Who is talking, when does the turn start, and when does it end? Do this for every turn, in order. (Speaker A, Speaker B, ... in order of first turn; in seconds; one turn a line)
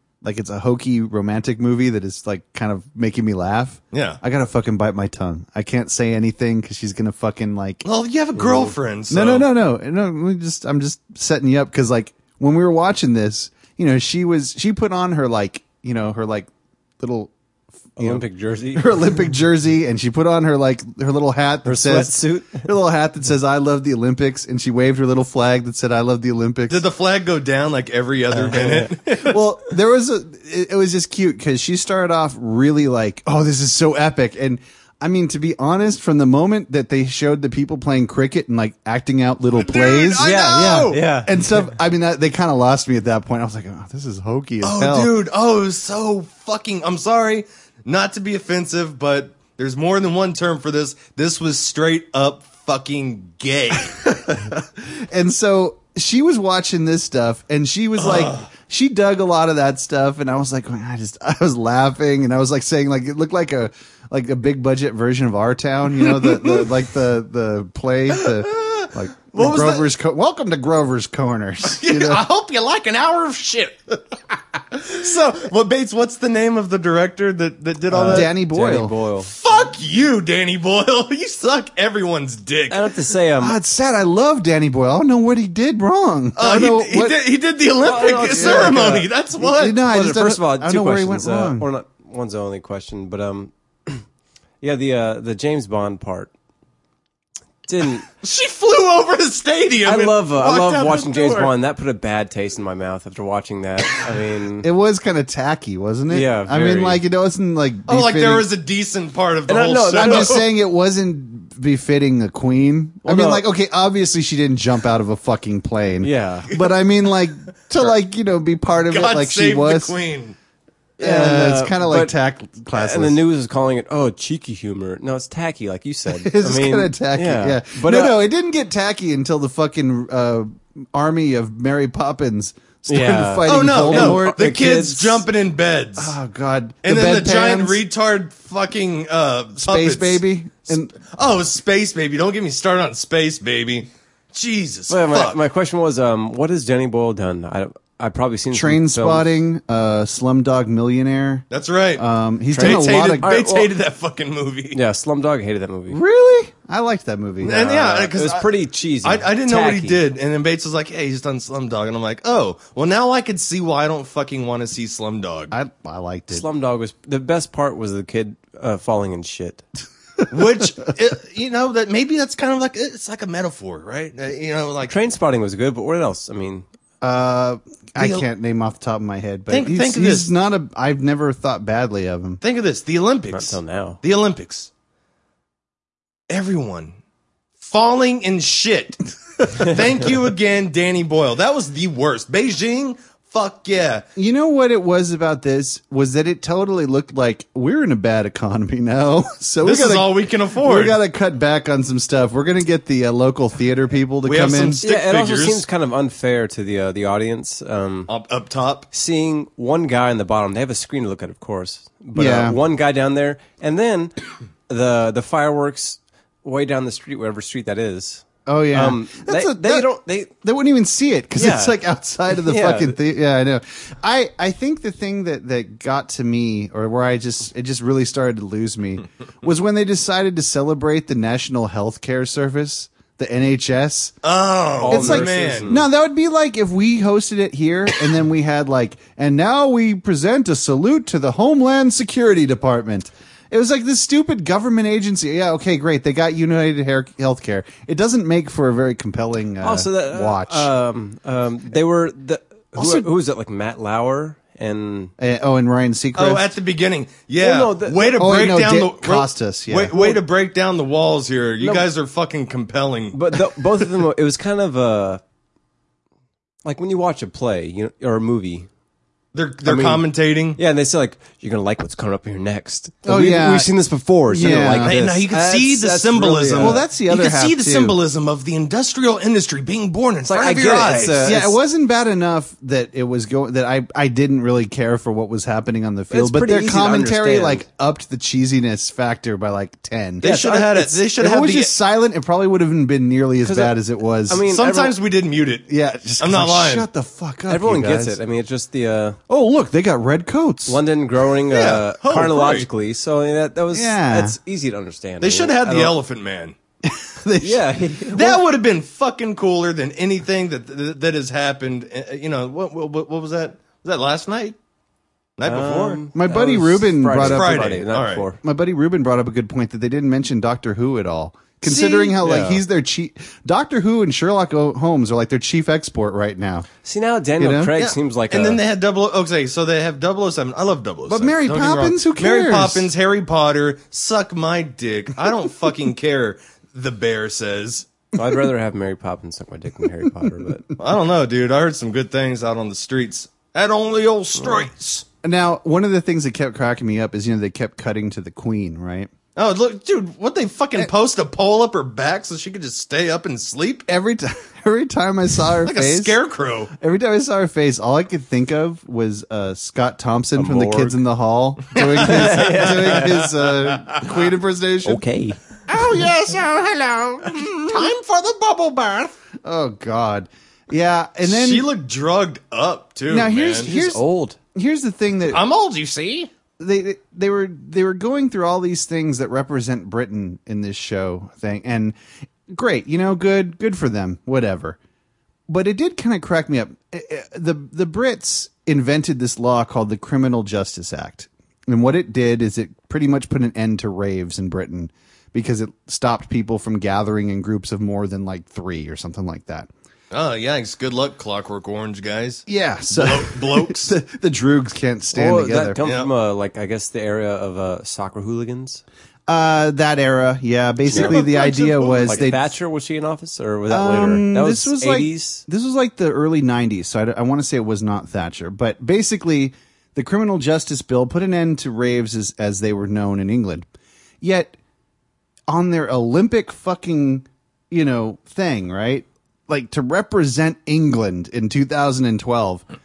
Speaker A: 0.2-7.8
Speaker B: 3.9-4.2
Speaker B: 7.8-9.5
Speaker C: 8.4-8.7
Speaker A: 9.1-17.3
Speaker A: 18.0-26.8
Speaker C: 18.0-19.0
Speaker C: 21.6-22.7
Speaker B: 26.7-29.4
Speaker C: 28.3-28.9
Speaker A: 29.2-45.1
Speaker B: 39.6-41.0
Speaker C: 40.2-41.6
Speaker B: 44.6-54.0
Speaker A: 54.0-72.2
Speaker B: 58.0-58.4
Speaker B: 66.0-66.8
Speaker B: 68.1-69.9
Speaker B: 71.6-74.0
Speaker B: 74.6-78.3
Speaker A: 77.9-79.0
Speaker C: 78.0-79.3
Speaker B: 79.2-83.1
Speaker C: 82.7-83.6
Speaker A: 83.4-87.2
Speaker B: 86.4-89.8
Speaker C: 87.8-89.1
Speaker A: 88.3-91.7
Speaker C: 89.9-94.0
Speaker C: 94.6-96.3
Speaker C: 97.7-98.0
Speaker B: 98.2-101.5
Speaker C: 99.8-104.7
Speaker A: 104.6-108.5
Speaker C: 106.1-107.0
Speaker B: 107.9-110.5
Speaker C: 109.5-110.4
Speaker A: 109.9-119.9
Speaker C: 113.1-113.5
Speaker C: 116.0-116.5
Speaker B: 118.9-120.4
Speaker C: 121.0-122.2
Speaker A: 121.0-123.2
Speaker C: 122.7-128.2
Speaker A: 126.1-134.4
Speaker C: 132.9-135.2
Speaker B: 133.4-136.2
Speaker A: 136.0-137.8
Speaker B: 136.8-145.4
Speaker A: 139.6-140.9
Speaker C: 144.9-149.4
Speaker A: 148.5-153.4
Speaker B: 151.5-154.8
Speaker C: 152.5-153.7
Speaker C: 154.7-156.0
Speaker A: 155.9-158.2
Speaker B: 157.4-158.5
Speaker C: 158.1-160.0
Speaker B: 159.0-165.5
Speaker A: 165.5-166.4
Speaker C: 166.3-169.6
Speaker B: 170.3-174.9
Speaker C: 174.9-176.7
Speaker A: 177.0-182.4
Speaker B: 178.0-178.3
Speaker B: 179.5-180.3
Speaker B: 182.4-184.7
Speaker C: 183.3-184.0
Speaker B: 186.3-186.9
Speaker B: 187.6-194.1
Speaker A: 194.2-204.8
Speaker B: 199.6-201.0
Speaker B: 204.2-205.7
Speaker C: 204.8-208.1
Speaker B: 208.1-208.9
Speaker C: 208.9-214.1
Speaker A: 212.2-212.6
Speaker C: 214.7-220.3
Speaker A: 218.5-234.2
Speaker C: 221.3-221.8
Speaker C: 222.3-223.0
Speaker B: 234.2-235.7
Speaker C: 234.8-235.9
Speaker A: 234.9-250.7
Speaker C: 249.6-255.1
Speaker A: 252.8-253.1
Speaker A: 255.2-256.5
Speaker B: 256.2-263.4
Speaker C: 257.4-258.2
Speaker A: 258.1-259.9
Speaker C: 259.9-260.2
Speaker C: 261.6-261.9
Speaker C: 263.1-265.2
Speaker C: 266.6-268.7
Speaker B: 269.3-270.6
Speaker C: 269.6-276.8
Speaker A: 273.1-273.7
Speaker A: 274.3-275.0
Speaker B: 274.8-281.4
Speaker A: 276.6-278.0
Speaker C: 280.2-281.6
Speaker A: 281.2-290.3
Speaker C: 286.1-287.6
Speaker B: 290.2-291.7
Speaker C: 290.2-291.0
Speaker A: 291.2-294.5
Speaker C: 293.4-293.8
Speaker C: 294.3-294.9
Speaker B: 294.5-296.9
Speaker A: 295.7-298.2
Speaker C: 297.5-299.2
Speaker A: 299.3-300.8
Speaker C: 300.7-305.9
Speaker B: 301.5-302.7
Speaker A: 303.7-304.4
Speaker B: 305.2-306.6
Speaker A: 306.8-307.6
Speaker C: 307.4-308.4
Speaker B: 308.1-314.6
Speaker B: 315.4-316.0
Speaker C: 315.4-318.4
Speaker A: 316.1-317.7
Speaker B: 317.2-318.3
Speaker A: 318.4-326.7
Speaker B: 321.6-322.2
Speaker C: 322.2-322.6
Speaker C: 326.8-328.6
Speaker A: 327.4-327.8
Speaker B: 327.8-337.9
Speaker A: 331.1-332.9
Speaker C: 338.1-340.6
Speaker B: 340.8-345.1
Speaker A: 345.2-349.1
Speaker B: 349.4-353.9
Speaker A: 353.9-356.2
Speaker B: 355.6-356.7
Speaker A: 356.7-365.0
Speaker C: 360.4-361.0
Speaker B: 361.7-364.2
Speaker C: 362.0-363.2
Speaker C: 364.9-365.4
Speaker B: 365.7-366.8
Speaker A: 365.7-366.1
Speaker A: 367.2-367.6
Speaker B: 367.3-369.1
Speaker A: 369.4-371.7
Speaker B: 371.2-373.7
Speaker A: 373.1-375.4
Speaker C: 373.6-374.4
Speaker B: 375.3-376.3
Speaker A: 376.6-382.0
Speaker A: 382.5-384.8
Speaker A: 385.5-399.7
Speaker B: 400.1-403.9
Speaker A: 402.5-405.8
Speaker C: 405.1-408.8
Speaker B: 405.8-406.1
Speaker A: 409.3-412.4
Speaker B: 410.9-412.3
Speaker C: 410.9-411.2
Speaker C: 412.0-415.4
Speaker A: 413.7-423.7
Speaker A: 424.2-424.6
Speaker A: 425.5-432.6